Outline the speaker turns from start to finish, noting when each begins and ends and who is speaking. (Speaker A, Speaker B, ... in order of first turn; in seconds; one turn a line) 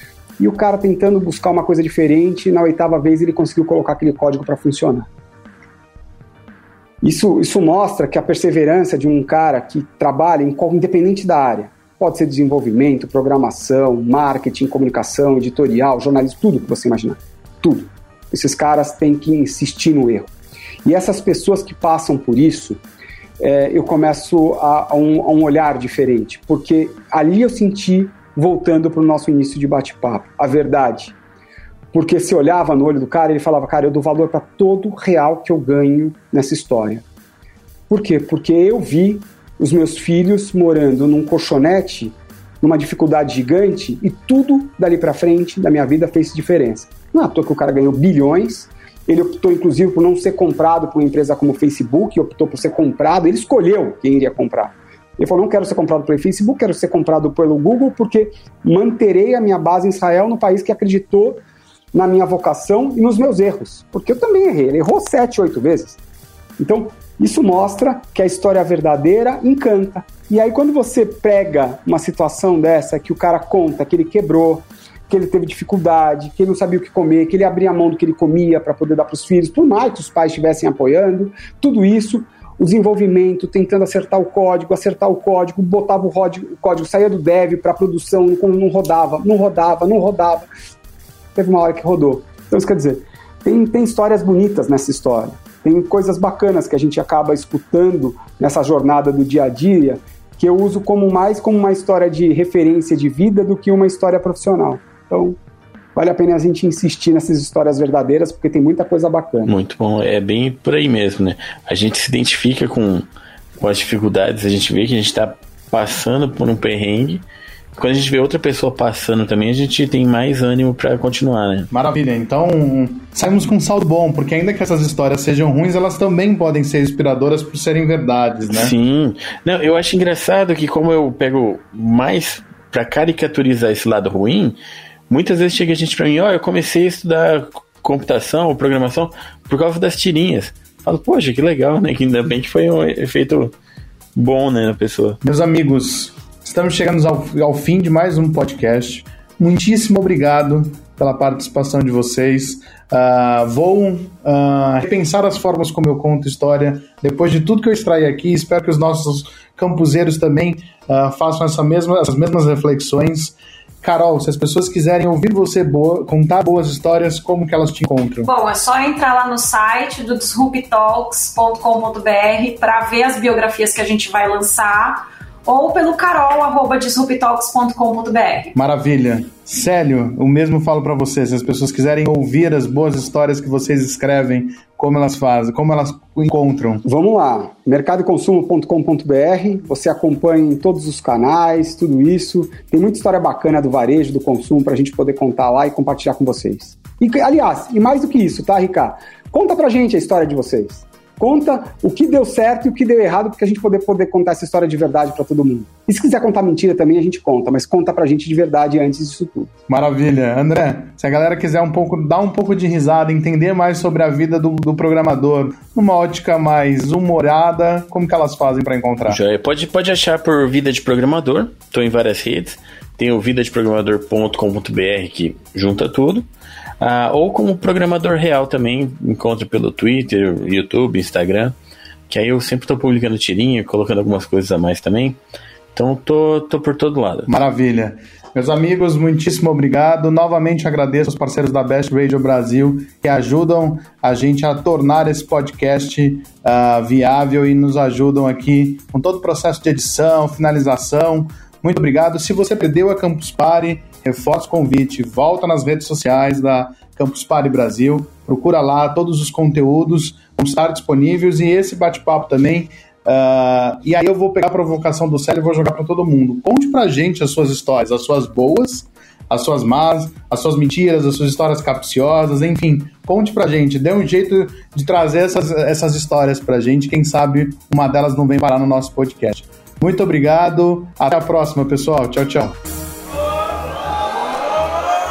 Speaker A: 0.4-5.1
Speaker A: 7.0-20.3
Speaker A: 20.8-22.8
Speaker A: 23.4-31.1
Speaker A: 31.9-37.0
Speaker A: 37.9-61.4
Speaker A: 61.9-66.0
Speaker A: 66.6-90.5
Speaker A: 91.3-105.4
Speaker A: 105.9-109.5
Speaker B: 109.4-113.0
Speaker B: 113.6-121.7
Speaker C: 121.7-128.7
Speaker B: 128.5-134.6
Speaker B: 135.1-143.5
Speaker B: 144.1-145.2
Speaker C: 145.2-168.3
Speaker D: 168.2-178.5
Speaker C: 178.5-186.8
Speaker A: 186.8-209.5
Speaker C: 209.7-219.2
Speaker B: 219.1-226.2
Speaker B: 226.8-231.5
Speaker B: 232.1-235.2
Speaker B: 235.7-237.3
Speaker C: 237.3-282.6